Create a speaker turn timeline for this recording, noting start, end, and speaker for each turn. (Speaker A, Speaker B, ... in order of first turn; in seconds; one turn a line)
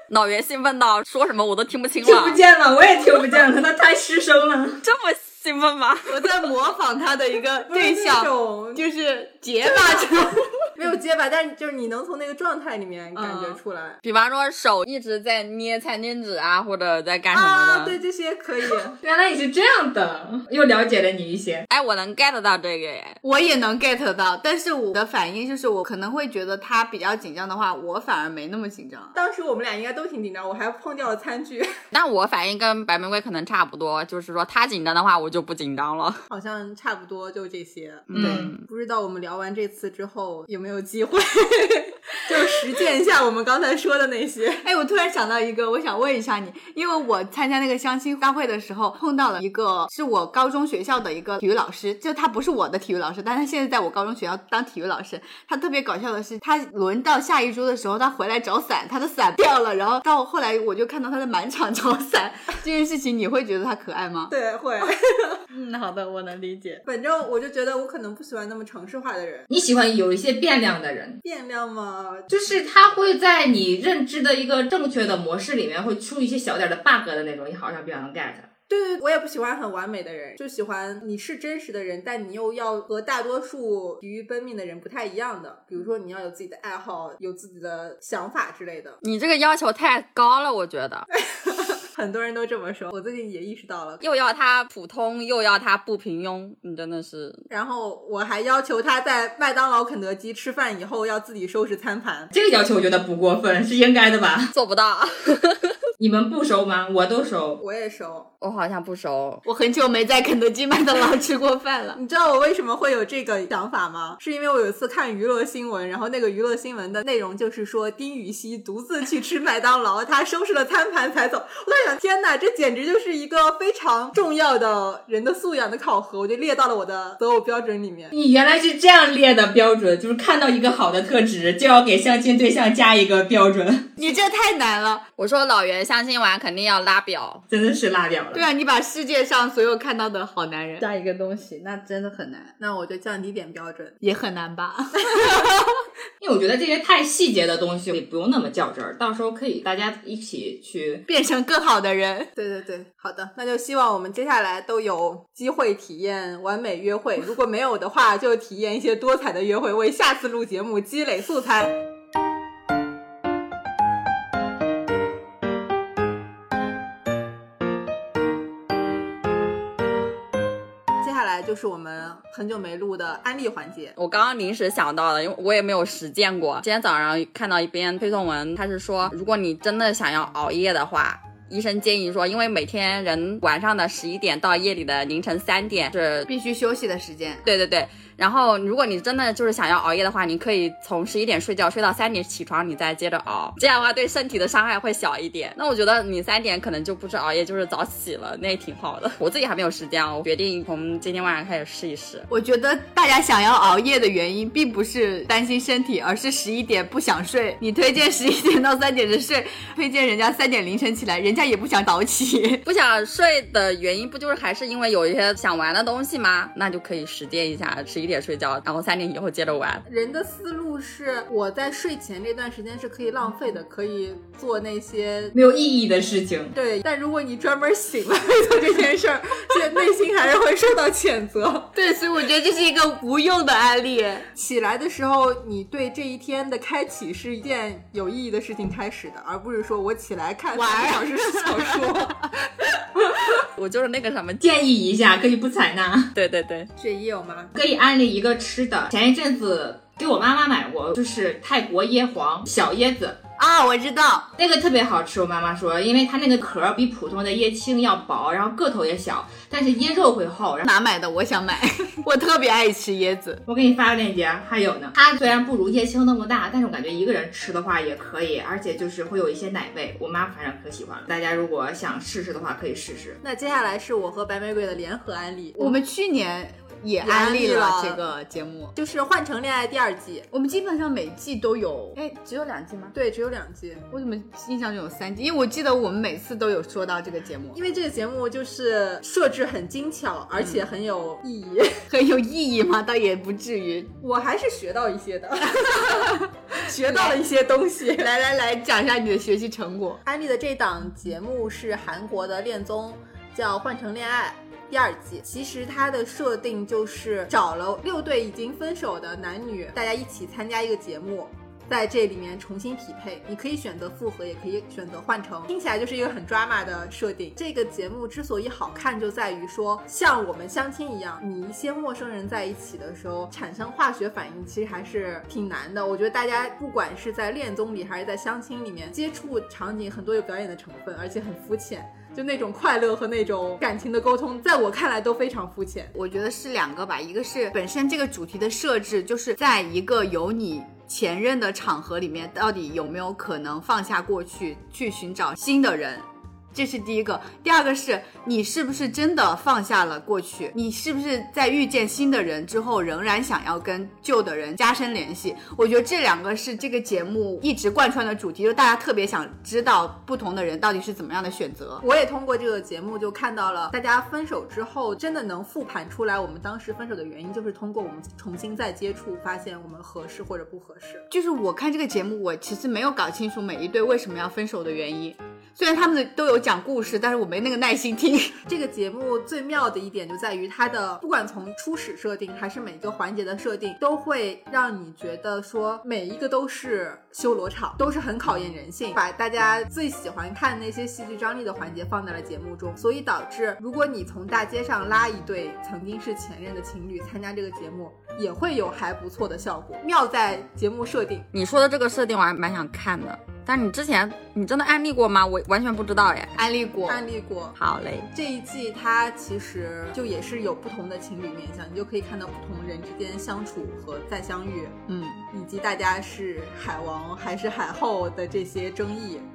Speaker A: 0.1-2.4
Speaker B: 2.0-4.8
Speaker A: 4.8-6.2
Speaker C: 6.1-10.5
Speaker D: 7.7-8.8
Speaker D: 9.7-10.1
Speaker D: 10.7-14.0
Speaker C: 13.2-13.5
Speaker A: 14.0-18.0
Speaker D: 17.3-19.0
Speaker B: 19.0-21.6
Speaker A: 21.7-23.2
Speaker C: 23.2-29.1
Speaker D: 29.1-31.7
Speaker A: 31.9-36.2
Speaker D: 36.3-44.6
Speaker A: 38.1-38.6
Speaker C: 38.1-38.4
Speaker B: 38.1-38.5
Speaker C: 44.6-64.3
Speaker D: 64.3-65.4
Speaker C: 65.5-66.8
Speaker D: 66.8-69.5
Speaker B: 69.5-71.2
Speaker D: 71.2-72.3
Speaker B: 72.3-78.5
Speaker D: 78.7-89.0
Speaker A: 89.0-91.1
Speaker D: 91.2-94.0
Speaker A: 94.0-97.4
Speaker D: 97.5-102.3
Speaker B: 102.3-104.5
Speaker A: 104.5-105.8
Speaker B: 106.0-107.6
Speaker D: 107.6-108.3
Speaker A: 108.4-109.4
Speaker C: 109.4-112.0
Speaker D: 111.9-128.1
Speaker B: 128.1-133.9
Speaker C: 134.0-135.0
Speaker A: 135.2-137.4
Speaker B: 137.5-138.4
Speaker C: 138.3-142.5
Speaker D: 142.6-144.0
Speaker C: 144.0-145.7
Speaker D: 145.1-145.5
Speaker B: 146.2-151.0
Speaker C: 151.1-152.3
Speaker D: 152.3-161.8
Speaker D: 171.0-173.9
Speaker A: 173.9-186.3
Speaker C: 186.3-187.4
Speaker A: 187.4-202.3
Speaker C: 202.3-212.6
Speaker A: 212.7-219.8
Speaker D: 219.9-225.3
Speaker B: 225.3-226.5
Speaker D: 226.5-231.7
Speaker C: 231.7-234.3
Speaker D: 234.3-242.3
Speaker C: 240.5-241.7
Speaker A: 243.3-244.4
Speaker B: 244.4-246.1
Speaker A: 246.1-246.7
Speaker D: 246.8-247.6
Speaker B: 247.6-253.2
Speaker C: 253.4-254.3
Speaker B: 254.4-260.7
Speaker C: 260.6-263.4
Speaker B: 263.5-273.2
Speaker D: 273.2-275.8
Speaker C: 275.6-278.7
Speaker D: 277.0-278.1
Speaker D: 278.7-280.3
Speaker C: 280.3-282.9
Speaker D: 282.9-283.9
Speaker C: 283.9-287.6
Speaker D: 287.5-291.8
Speaker C: 290.4-290.6
Speaker C: 291.9-293.9
Speaker D: 294.0-298.1
Speaker C: 295.6-296.3
Speaker C: 296.8-297.2
Speaker C: 297.9-300.0
Speaker D: 300.0-335.9
Speaker C: 335.9-361.8
Speaker D: 361.8-371.1
Speaker C: 371.1-378.4
Speaker D: 378.4-401.3
Speaker A: 401.3-406.3
Speaker C: 406.4-407.0
Speaker D: 406.9-407.6
Speaker A: 407.6-408.1
Speaker D: 408.1-414.8
Speaker C: 414.9-415.2
Speaker D: 415.3-419.2